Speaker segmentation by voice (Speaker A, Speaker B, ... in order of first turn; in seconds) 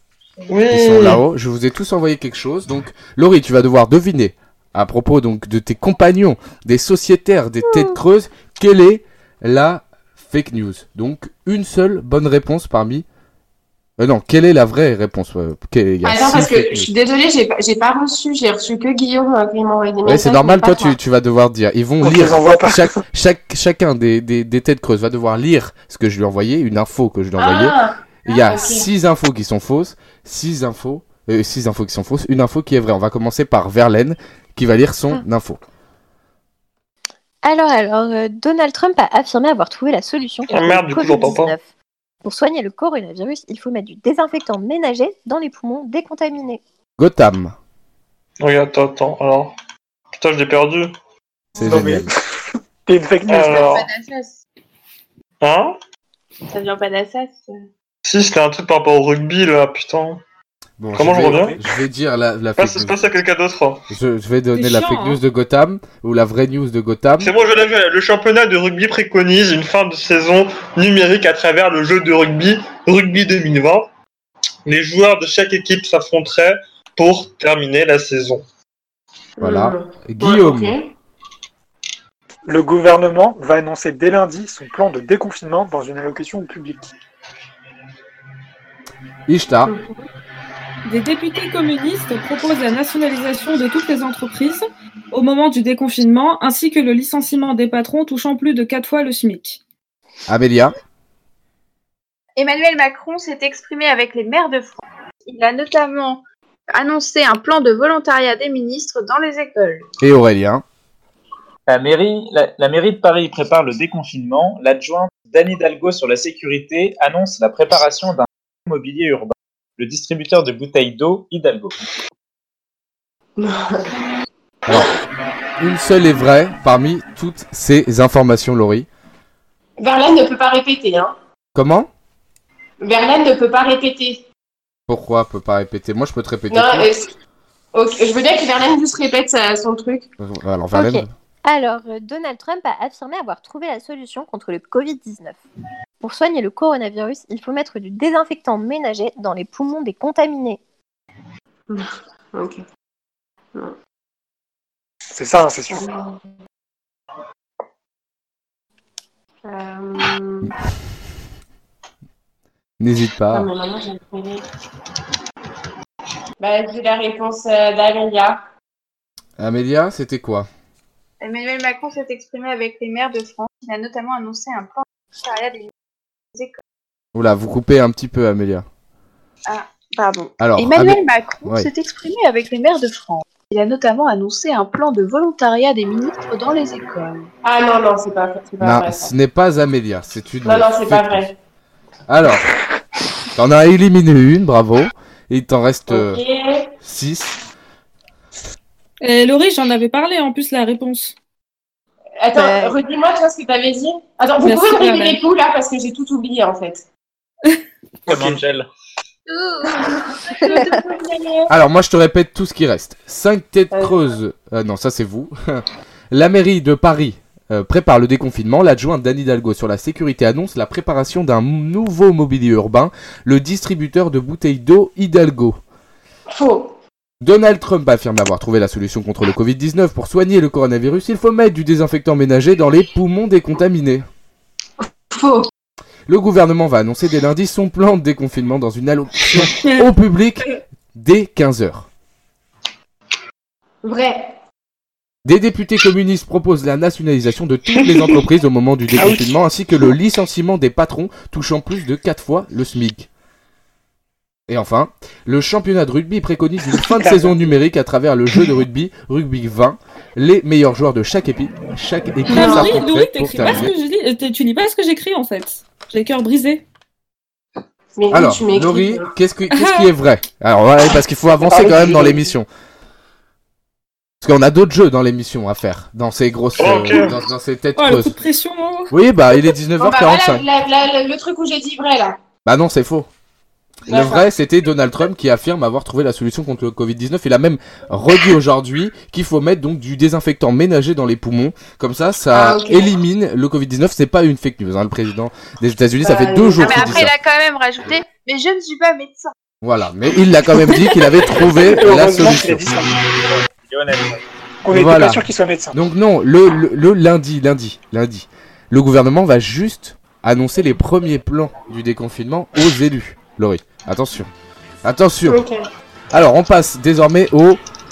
Speaker A: 0.5-1.2, 40.5-41.5, 48.4-49.5, 50.1-50.9, 53.3-53.9, 55.4-55.8, 58.0-60.2, 60.9-61.5, 62.6-63.8, 67.2-73.9, 74.7-78.4, 276.6-277.1
Speaker B: 0.7-13.0, 14.0-16.9, 20.0-35.6, 47.0-47.5, 51.5-52.1, 60.8-63.0, 63.9-67.3, 79.4-80.8, 89.3-89.7, 100.3-100.7, 110.0-110.6, 124.7-124.9, 125.6-128.9, 131.5-131.9, 134.9-136.9, 140.2-141.1, 162.8-163.5, 169.4-170.5, 177.1-178.7, 180.4-181.7, 188.6-191.3, 192.1-192.5, 193.3-196.2, 196.8-197.4, 211.5-225.6, 227.2-234.1, 236.1-241.9, 245.2-253.1, 254.5-263.7, 268.1-272.5, 274.2-278.2, 278.9-280.4, 282.4-283.1, 283.9-297.1, 299.6-302.6, 304.7-314.3, 314.8-315.4, 316.1-317.6
Speaker C: 16.0-21.0, 27.4-28.9, 79.4-80.9, 89.7-90.0, 123.4-124.0, 129.8-131.1, 132.8-134.2, 136.5-137.1, 137.7-140.1, 151.7-152.6, 155.7-156.2, 159.4-160.5, 163.3-164.4, 166.4-168.4, 187.4-189.1, 190.4-191.3, 195.9-196.7, 202.2-206.8, 210.6-211.5, 213.7-214.0, 226.3-226.7, 234.8-235.5, 243.8-244.3, 262.3-262.8, 267.9-269.1, 279.8-282.2, 283.9-284.3, 292.3-292.9, 296.0-297.1, 315.3-315.6
Speaker D: 22.0-23.0, 51.6-53.7, 82.5-86.9, 155.1-155.9, 208.1-208.4, 248.9-249.3, 256.8-257.3, 271.4-272.3, 301.6-302.9, 304.6-305.8
Speaker E: 37.4-41.7, 42.2-46.6, 140.7-145.4, 146.0-150.6, 202.3-202.8, 210.5-210.8
Speaker F: 53.4-54.4, 56.5-57.6, 102.4-109.9, 171.2-175.7, 176.3-176.6, 179.5-187.3, 209.3-210.9, 296.6-299.3
Speaker G: 64.5-65.2, 90.8-99.6, 199.0-201.1, 204.4-205.2, 262.3-266.6, 269.5-269.9, 277.8-278.9
Speaker H: 111.7-121.8, 208.1-208.7, 303.1-304.2